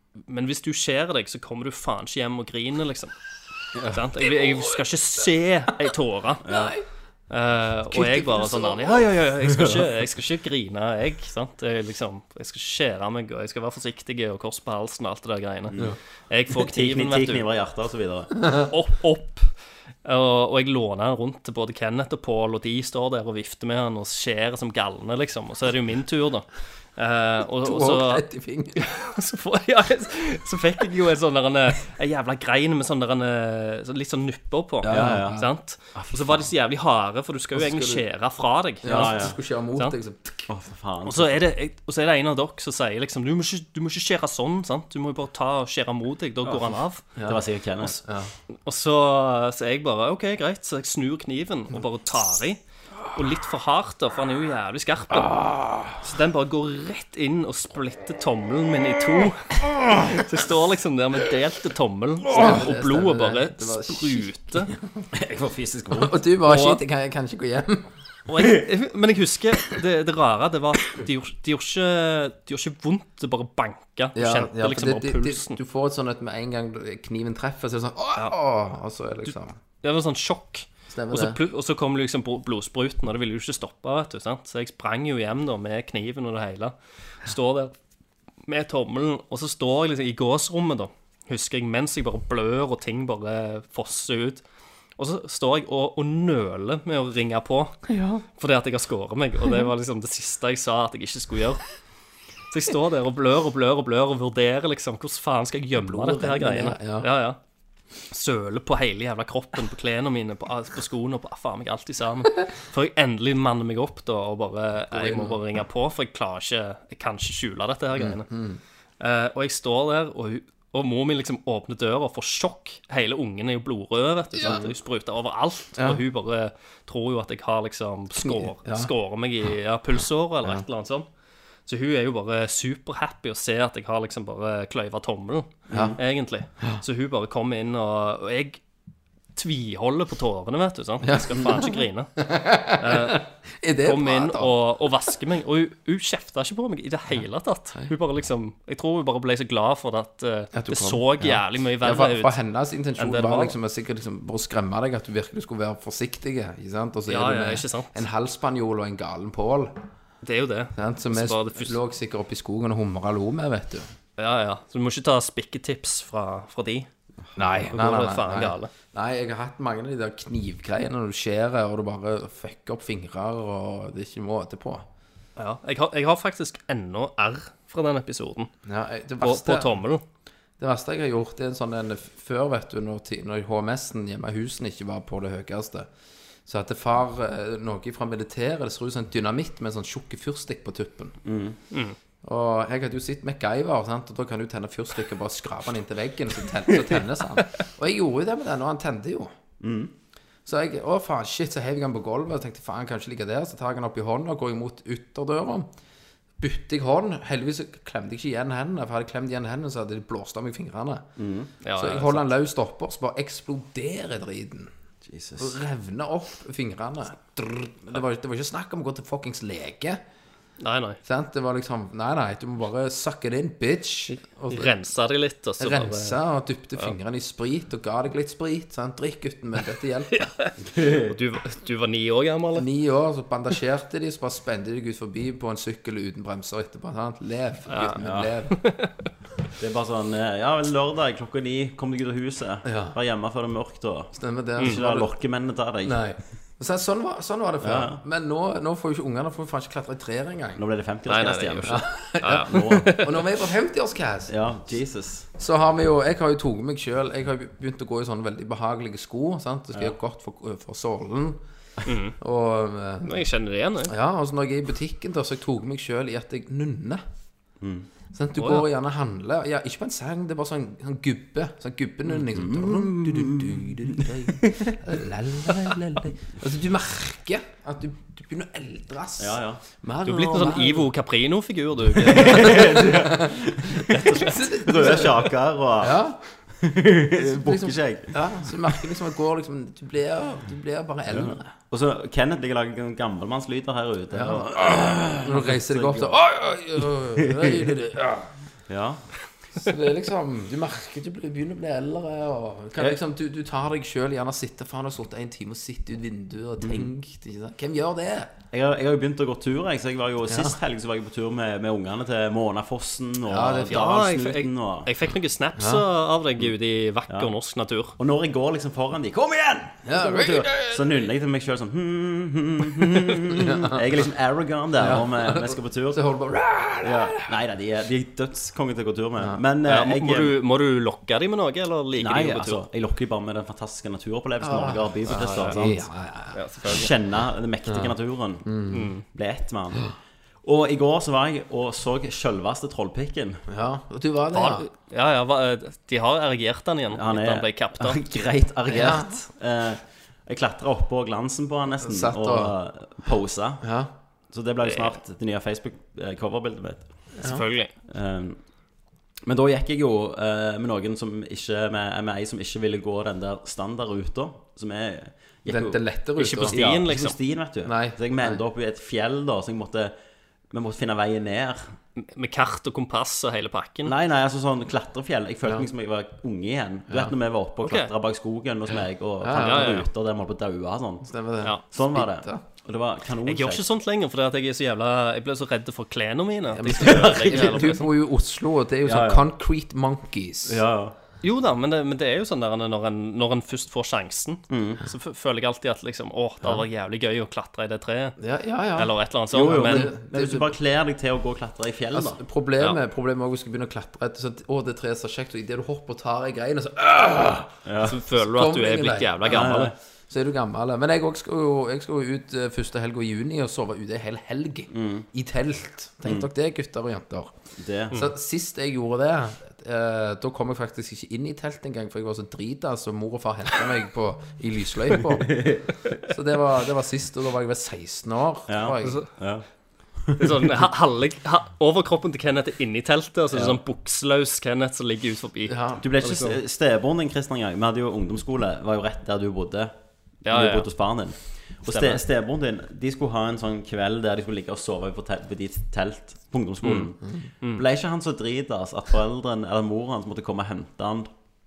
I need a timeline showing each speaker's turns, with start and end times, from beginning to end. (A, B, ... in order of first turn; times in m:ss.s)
0:00.2-0:03.2 A
0:03.9-0:06.5 A
0:06.4-0:06.7 B
0:06.5-0:06.8 C
0:07.3-0:15.8 A
0:07.9-0:09.0 C
0:16.3-0:17.5 A
0:16.5-0:18.3 B
0:18.6-0:19.5 A
0:20.0-0:40.0 A
0:27.6-0:28.8 C
0:34.8-0:35.5 C
0:34.9-0:35.4 B
0:35.9-0:36.5 B
0:37.5-0:38.0 C
0:38.8-0:40.5 C
0:38.8-0:39.4 B
0:40.5-0:41.4 B
0:41.1-0:47.1 A
0:47.2-0:47.4 C
0:47.2-0:48.0 B
0:48.0-0:48.3 C
0:48.6-0:52.6 A
0:53.1-0:55.4 A
0:56.0-1:04.7 A
1:02.3-1:05.1 C
1:05.1-1:06.2 B
1:05.9-1:07.9 C
1:06.4-1:06.8 A
1:08.3-1:15.6 A
1:14.2-1:19.6 C
1:19.8-1:27.7 A
1:20.9-1:21.4 C
1:28.4-1:34.4 A
1:35.0-1:41.6 A
1:37.9-1:38.2 C
1:42.5-1:47.4 A
1:45.8-1:47.1 C
1:48.1-1:58.3 A
1:54.9-1:55.4 C
1:58.0-1:58.6 C
1:59.0-2:11.1 A
2:04.4-2:04.7 C
2:05.8-2:06.0 C
2:08.2-2:08.9 C
2:11.7-2:18.6 A
2:15.7-2:16.0 B
2:15.7-2:16.0 C
2:19.3-2:23.2 A
2:21.0-2:24.6 C
2:23.8-2:32.4 A
2:30.5-2:39.8 C
2:33.0-2:33.6 A
2:37.1-2:38.0 A
2:40.2-2:41.8 A
2:40.8-2:43.9 C
2:44.2-2:46.9 A
2:47.4-2:54.8 C
2:47.7-2:48.7 A
2:55.4-2:58.5 A
2:58.7-2:59.8 C
2:59.2-3:00.0 A
3:00.6-3:05.9 C
3:06.5-3:11.2 C
3:11.2-3:11.6 B
3:11.7-3:12.0 A
3:12.2-3:19.3 C
3:19.6-3:19.9 B
3:20.5-3:25.7 C
3:26.4-3:31.1 C
3:31.2-3:31.5 B
3:31.6-3:32.3 A
3:31.8-3:34.7 C
3:35.1-3:35.6 B
3:35.4-3:40.0 C
3:40.6-3:41.0 A
3:41.0-3:44.8 C
3:44.5-3:46.2 A
3:45.6-3:50.3 C
3:50.1-3:50.5 A
3:50.6-3:51.2 B
3:51.0-3:52.7 A
3:52.6-3:58.6 C
3:57.7-3:58.0 A
3:58.0-3:58.3 B
3:58.6-3:58.9 A
3:59.6-4:06.0 B
4:02.6-4:03.0 C
4:04.2-4:05.1 C
4:05.8-4:10.6 C
4:07.6-4:08.0 B
4:10.6-4:11.8 B
4:11.1-4:13.2 A
4:11.7-4:14.3 C
4:12.4-4:13.0 B
4:14.3-4:15.3 B
4:15.4-4:21.4 C
4:21.9-4:22.2 A
4:22.2-4:23.2 C
4:23.0-4:23.9 A
4:23.9-4:27.0 C
4:27.6-4:27.9 B
4:28.1-4:40.9 C
4:28.4-4:28.7 A
4:32.1-4:34.7 B
4:39.2-4:39.6 B
4:40.0-4:42.8 A
4:42.0-4:48.8 B
4:42.2-4:45.3 C
4:43.8-4:45.1 A
4:45.8-4:46.2 C
4:47.2-4:51.5 C
4:51.1-4:56.2 B
4:54.1-4:58.3 C
4:57.2-4:57.7 B
4:58.7-4:59.1 B
4:59.6-5:08.3 C
5:06.6-5:06.9 B
5:08.5-5:14.9 B
5:10.3-5:10.6 C
5:13.3-5:13.8 C
5:13.6-5:18.0 A
5:15.6-5:15.8 C
5:18.0-5:26.0 B
5:19.8-5:21.0 C
5:23.4-5:23.8 C
5:24.8-5:27.3 C
5:26.8-5:30.4 B
5:29.6-5:32.6 A
5:32.0-5:35.8 B
5:34.4-5:36.4 C
5:35.1-5:35.6 A
5:36.3-5:36.9 A
5:36.6-5:39.9 B
5:37.7-5:37.9 C
5:38.4-5:38.9 C
5:38.7-5:39.0 A
5:40.4-5:43.4 B
5:43.5-5:44.7 C
5:44.3-5:48.0 A
5:46.9-5:53.6 B
5:48.7-5:49.2 C
5:51.8-5:52.5 C
5:53.6-5:53.9 C
5:54.3-5:57.1 B
5:54.6-5:55.0 A
5:57.2-5:57.7 A
5:57.9-5:58.4 B
5:59.2-6:05.8 B
6:05.5-6:06.6 C
6:06.2-6:07.2 A
6:06.4-6:10.0 B
6:07.6-6:08.4 C
6:10.5-6:11.7 B
6:12.0-6:13.9 A
6:13.8-6:21.1 B
6:17.6-6:17.9 A
6:19.2-6:19.8 C
6:19.3-6:19.9 A
6:21.1-6:22.4 C
6:21.7-6:23.6 B
6:23.2-6:27.9 A
6:26.5-6:30.6 C
6:28.8-6:29.2 B
6:30.5-6:31.0 B
6:31.2-6:38.2 A
6:34.5-6:34.8 B
6:38.2-6:39.0 C
6:38.8-6:39.9 A
6:39.3-6:42.2 B
6:39.5-6:40.5 C
6:41.9-6:57.4 C
6:47.6-6:48.0 B
6:47.8-6:49.7 A
6:49.2-6:49.7 B
6:54.7-6:55.1 B
6:57.6-6:58.0 B
6:57.9-7:05.4 C
7:05.2-7:06.0 B
7:06.0-7:09.0 C
7:08.5-7:09.5 B
7:10.0-7:10.2 B
7:10.2-7:16.4 A
7:13.3-7:13.6 B
7:15.5-7:16.2 C
7:15.8-7:19.8 B
7:20.2-7:20.7 A
7:20.2-7:31.1 B
7:21.6-7:22.0 A
7:26.6-7:26.9 A